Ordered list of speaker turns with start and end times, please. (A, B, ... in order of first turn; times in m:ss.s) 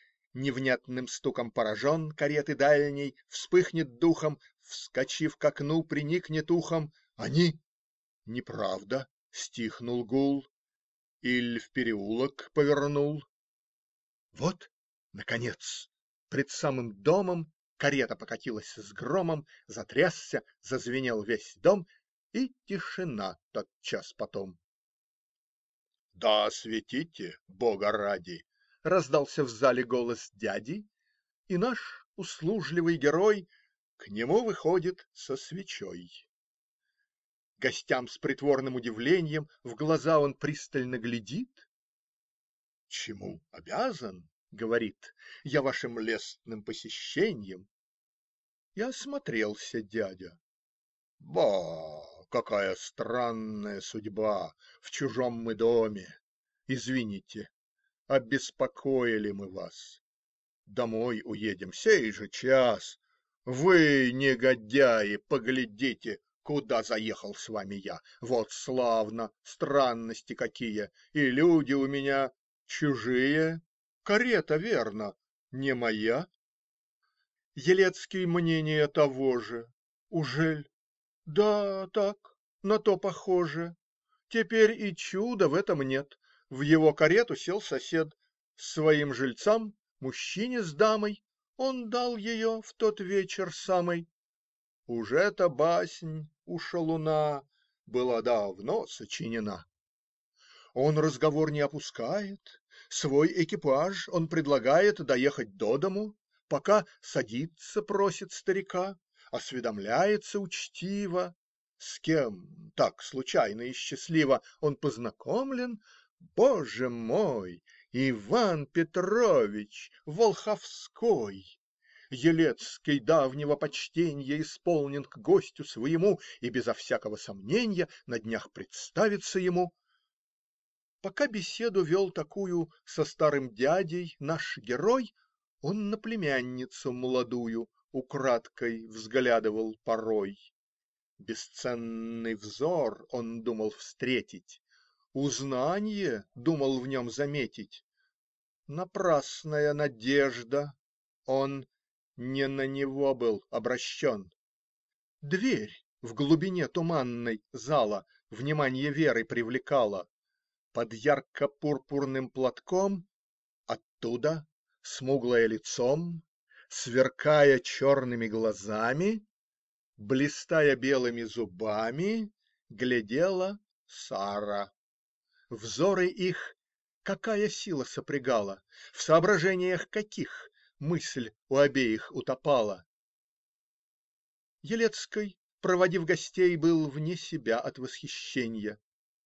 0:00.3-0:07.6 A
0:08.3-0:10.5 A
0:11.2-0:13.2 A
0:14.3-0:24.6 A
0:26.2-0:30.9 A
0:31.5-0:36.3 A
0:37.6-0:41.7 A
0:42.9-0:47.7 A
0:48.8-0:50.4 A
0:51.2-0:57.5 A
0:58.1-1:00.0 A
1:00.7-1:16.3 A
1:17.6-1:20.7 A
1:21.3-1:23.8 A
1:24.3-1:34.1 A
1:34.9-1:39.7 A
1:40.8-2:01.6 A
2:02.1-2:09.7 A
2:11.0-2:20.5 A
2:21.2-2:24.6 A
2:25.1-2:27.8 A
2:28.7-2:34.3 A
2:35.2-2:40.1 A
2:40.7-2:43.1 A
2:43.7-2:49.2 A
2:50.0-2:54.7 A
2:55.5-3:02.8 A
3:04.6-3:08.8 A